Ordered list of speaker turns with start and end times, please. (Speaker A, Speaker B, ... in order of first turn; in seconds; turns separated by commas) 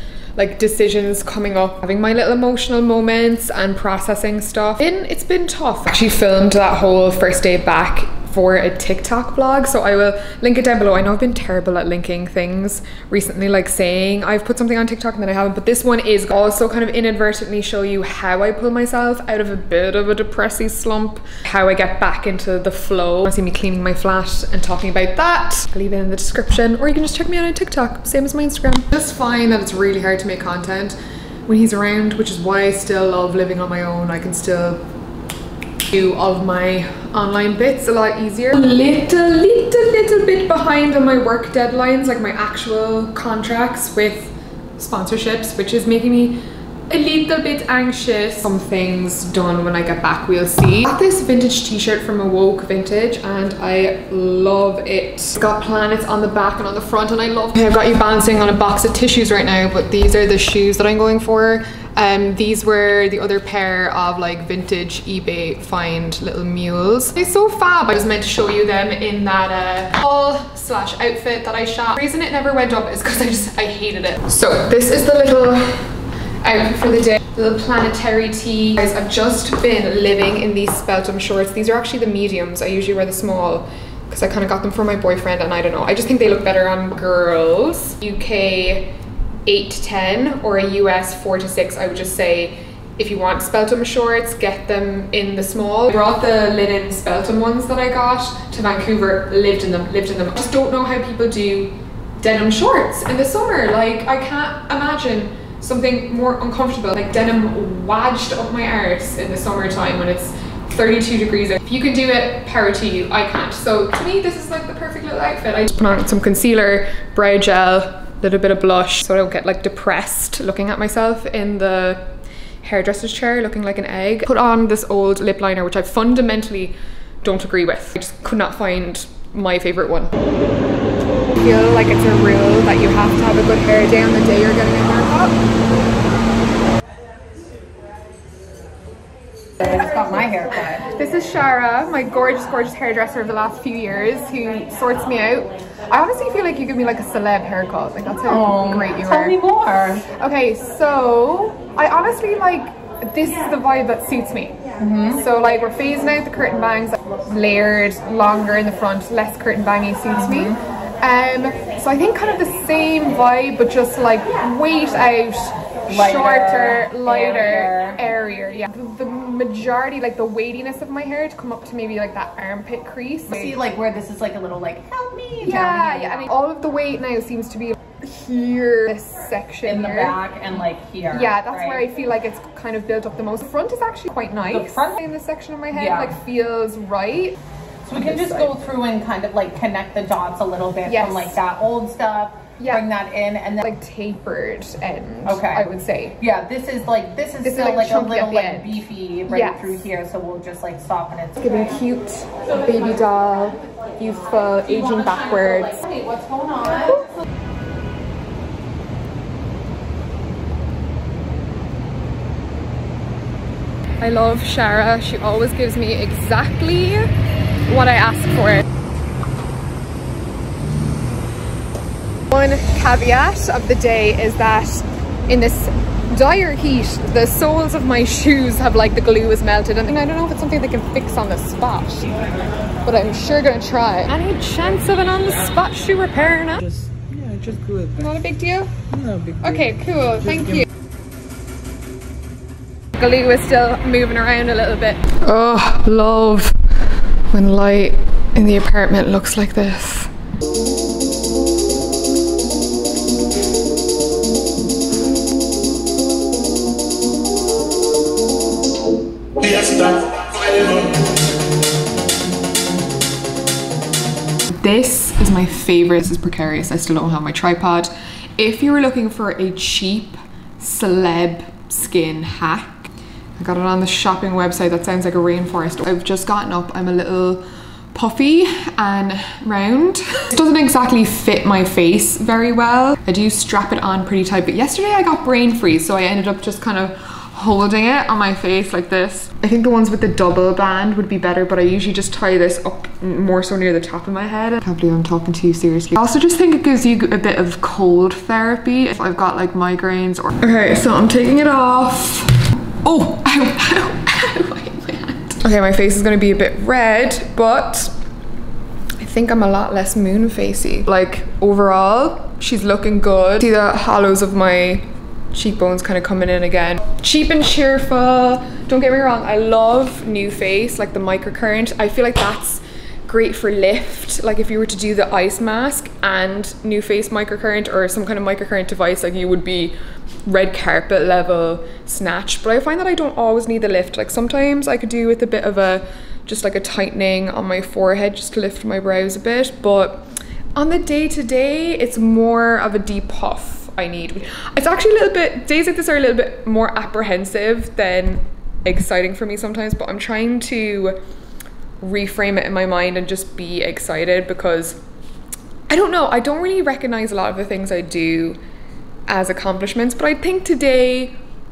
Speaker A: 0.4-34.8, Speaker A: 35.9-88.9, Speaker A: 89.5-130.1, Speaker A: 131.4-135.4, Speaker B: 139.6-140.9, Speaker A: 140.8-149.4, Speaker B: 148.2-150.1, Speaker A: 150.2-173.6, Speaker B: 154.8-155.2, Speaker B: 160.2-160.6, Speaker B: 165.9-168.0, Speaker B: 173.3-176.3, Speaker A: 175.4-180.2, Speaker B: 179.7-181.8, Speaker A: 181.1-187.4, Speaker B: 184.5-185.0, Speaker B: 185.7-186.2, Speaker B: 187.8-193.7, Speaker A: 188.0-188.5, Speaker A: 190.9-191.4, Speaker A: 192.6-192.8, Speaker A: 193.6-196.2, Speaker B: 195.2-195.7, Speaker B: 196.2-201.7, Speaker A: 197.4-199.8, Speaker A: 201.4-205.8, Speaker B: 204.8-207.0, Speaker A: 214.0-217.1, Speaker A: 217.7-218.7, Speaker A: 222.3-232.1, Speaker A: 232.8-236.6, Speaker C: 236.6-238.1, Speaker A: 238.0-238.7, Speaker C: 238.9-240.7, Speaker A: 239.4-240.7, Speaker A: 243.0-246.5, Speaker A: 247.3-250.1, Speaker A: 264.5-307.9, Speaker A: 309.0-329.8, Speaker A: 330.3-351.0, Speaker A: 351.8-354.8, Speaker A: 355.7-358.4, Speaker A: 359.1-361.2